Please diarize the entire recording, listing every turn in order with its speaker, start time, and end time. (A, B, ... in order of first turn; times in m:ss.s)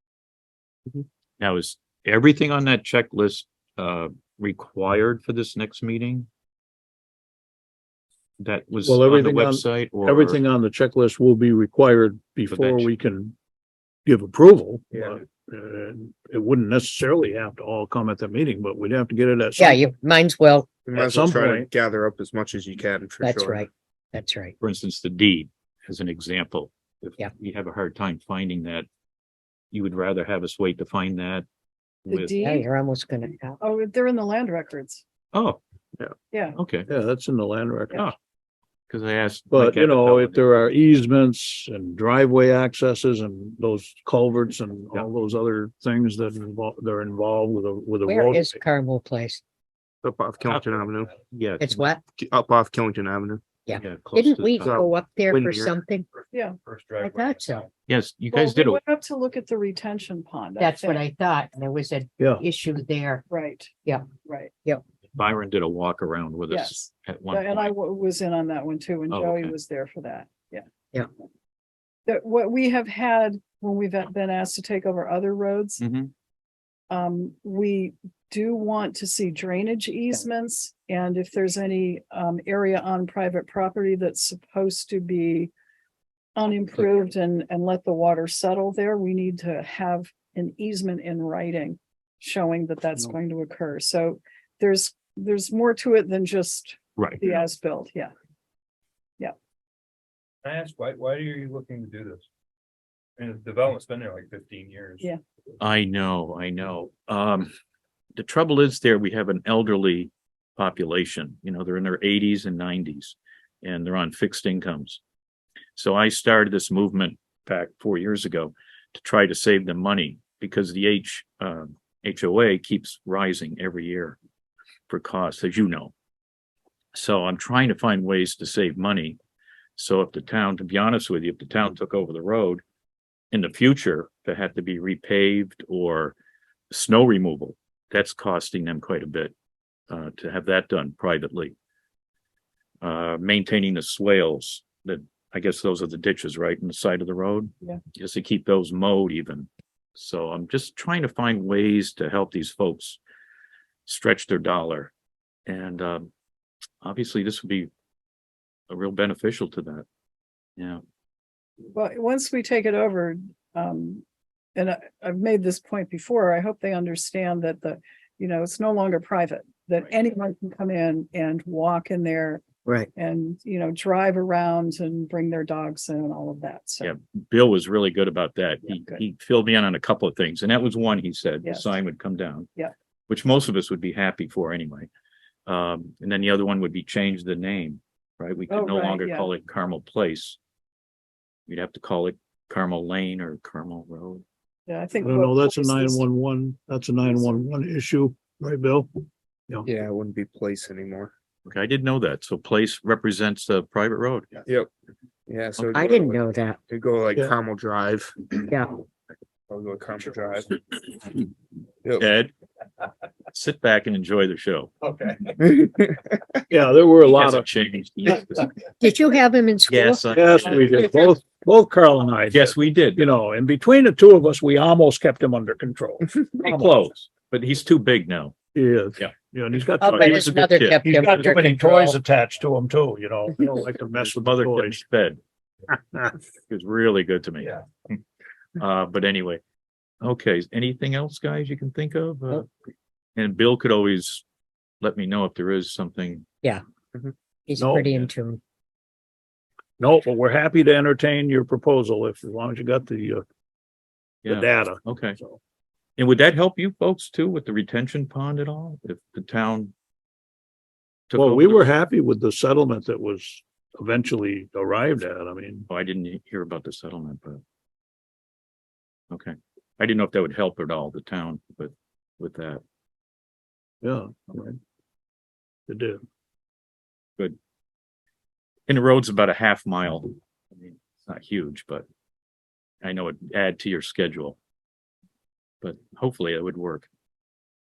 0:00.9-0:06.3 A
0:08.4-0:10.4 A
0:08.8-0:13.3 B
0:12.5-0:12.9 A
0:14.0-0:19.8 B
0:19.6-0:20.8 C
0:20.8-0:23.6 D
0:20.9-0:21.7 B
0:23.2-0:24.5 C
0:24.6-0:28.9 A
0:29.7-0:31.4 A
0:32.0-0:32.4 A
0:32.1-0:32.7 E
0:32.4-0:33.6 C
0:33.6-0:35.0 E
0:35.3-0:35.6 A
0:36.3-0:36.6 E
0:36.6-0:36.9 A
0:36.9-0:38.0 B
0:38.9-0:40.5 A
0:39.5-0:48.6 B
0:48.0-0:49.4 C
0:50.0-0:51.1 D
0:51.3-0:51.8 A
0:51.6-0:52.0 C
0:52.2-0:53.4 D
0:53.7-0:56.0 C
0:53.7-0:54.8 A
0:54.6-0:55.8 D
0:56.6-0:57.7 F
0:57.0-0:57.6 C
0:57.9-0:58.8 A
0:58.3-1:01.0 E
1:00.6-1:03.2 C
1:02.2-1:02.4 B
1:03.3-1:04.5 E
1:05.1-1:07.7 A
1:06.5-1:10.6 E
1:09.1-1:09.5 A
1:12.1-1:15.8 E
1:15.8-1:16.1 A
1:16.9-1:25.5 E
1:26.4-1:38.1 E
1:37.0-1:37.2 A
1:40.4-1:42.2 F
1:43.2-1:45.1 F
1:45.6-1:47.5 A
1:48.2-1:55.0 A
1:55.8-2:04.2 A
2:04.9-2:05.9 A
2:06.9-2:09.2 A
2:09.8-2:12.6 A
2:13.3-2:16.2 A
2:16.7-2:19.3 A
2:19.9-2:21.5 A
2:22.8-2:33.0 A
2:33.9-2:34.9 A
2:35.5-2:36.1 A
2:36.8-2:37.7 A
2:38.7-2:39.8 A
2:41.7-2:44.0 E
2:44.5-2:52.4 E
2:52.9-2:56.9 E
2:56.8-3:02.5 A
2:58.7-2:59.0 E
3:01.4-3:01.8 E
3:03.1-3:04.9 A
3:05.5-3:10.4 A
3:08.5-3:09.3 E
3:11.5-3:14.2 A
3:14.7-3:16.0 E
3:15.0-3:18.9 B
3:19.6-3:21.1 D
3:21.5-3:24.3 A
3:25.3-3:28.5 D
3:25.7-3:26.6 C
3:28.5-3:28.8 C
3:29.5-3:30.6 D
3:32.0-3:32.3 A
3:33.3-3:34.7 A
3:35.4-3:36.2 D
3:36.5-3:37.5 B
3:37.1-3:38.5 A
3:38.8-3:40.0 C
3:39.7-3:40.9 A
3:40.1-3:46.9 B
3:42.3-3:43.0 A
3:46.4-3:48.3 A
3:48.5-3:54.8 B
3:49.8-3:51.9 C
3:49.8-3:50.8 A
3:54.0-3:55.2 A
3:56.5-3:57.6 A
3:58.6-3:59.4 A
4:00.0-4:02.5 A
4:03.2-4:04.2 A
4:04.8-4:06.2 A
4:07.5-4:08.4 C
4:07.6-4:08.0 B
4:09.8-4:13.2 B
4:14.2-4:15.2 A
4:14.2-4:15.4 B
4:16.0-4:19.7 A
4:21.1-4:21.6 A
4:21.1-4:25.6 B
4:25.7-4:27.4 A
4:29.1-4:32.6 A
4:33.8-4:34.6 B
4:35.7-4:36.0 B
4:38.7-4:41.8 A
4:42.8-4:44.4 A
4:45.6-4:46.9 A